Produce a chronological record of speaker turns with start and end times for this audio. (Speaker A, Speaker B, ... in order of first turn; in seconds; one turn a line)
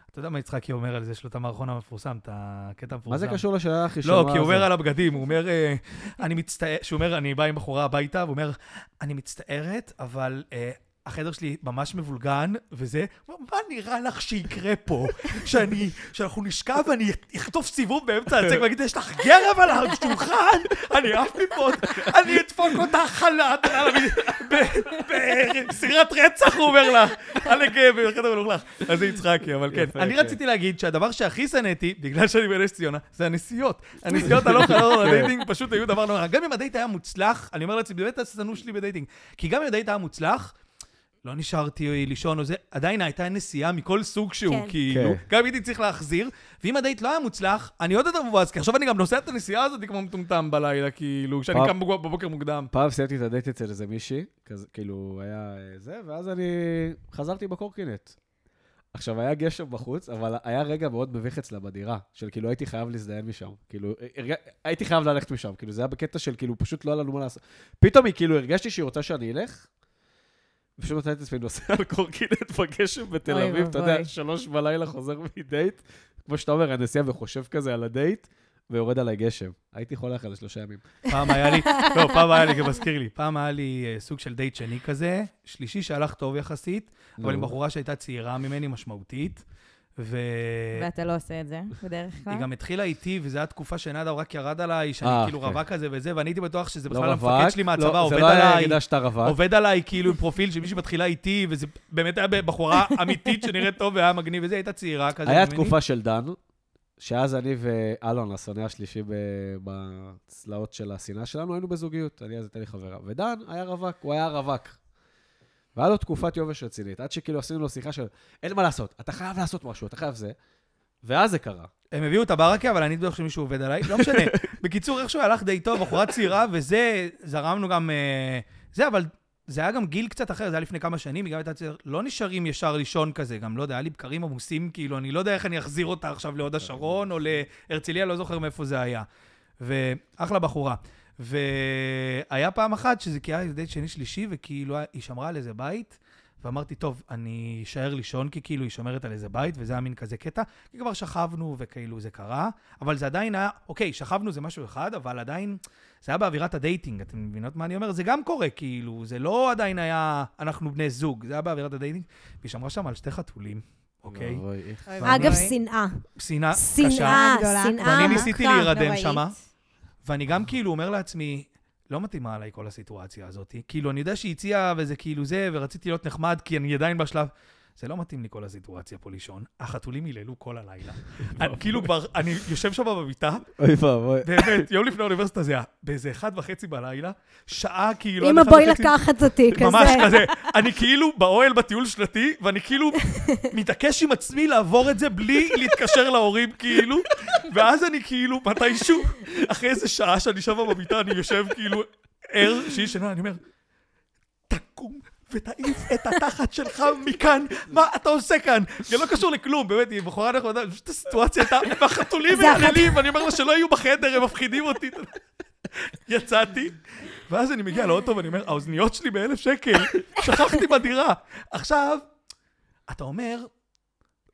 Speaker A: 0.1-3.4
Speaker B: 3.1-4.7
Speaker A: 4.0-40.5
Speaker B: 29.7-30.4
Speaker B: 34.1-35.3
Speaker A: 41.2-52.7
Speaker C: 44.5-44.8
Speaker B: 44.9-45.2
Speaker B: 52.7-58.1
Speaker B: 58.9-69.7
Speaker B: 70.8-80.8
Speaker D: 73.3-74.1
Speaker A: 81.1-89.4
Speaker C: 81.7-82.0
Speaker B: 87.2-87.5
Speaker A: 90.0-90.9
Speaker D: 90.7-92.5
Speaker A: 92.3-105.8
Speaker B: 95.0-95.6
Speaker B: 96.9-99.4
Speaker B: 105.2-106.4
Speaker B: 107.0-114.8
Speaker B: 115.8-120.3
Speaker B: 121.0-121.7
Speaker A: 121.9-139.1
Speaker B: 123.9-124.3
Speaker B: 136.6-137.0
Speaker A: 139.6-164.4
Speaker B: 164.1-165.4
Speaker D: 164.9-165.6
Speaker A: 165.0-165.4
Speaker C: 165.0-166.0
Speaker A: 166.2-167.2
Speaker C: 166.5-169.1
Speaker D: 166.8-169.3
Speaker A: 167.8-169.3
Speaker A: 170.1-183.5
Speaker B: 181.4-181.9
Speaker B: 183.6-184.7
Speaker A: 184.2-203.4
Speaker C: 188.2-190.3
Speaker A: 204.5-215.2
Speaker C: 212.3-213.0
Speaker A: 215.8-222.0
Speaker A: 222.9-223.5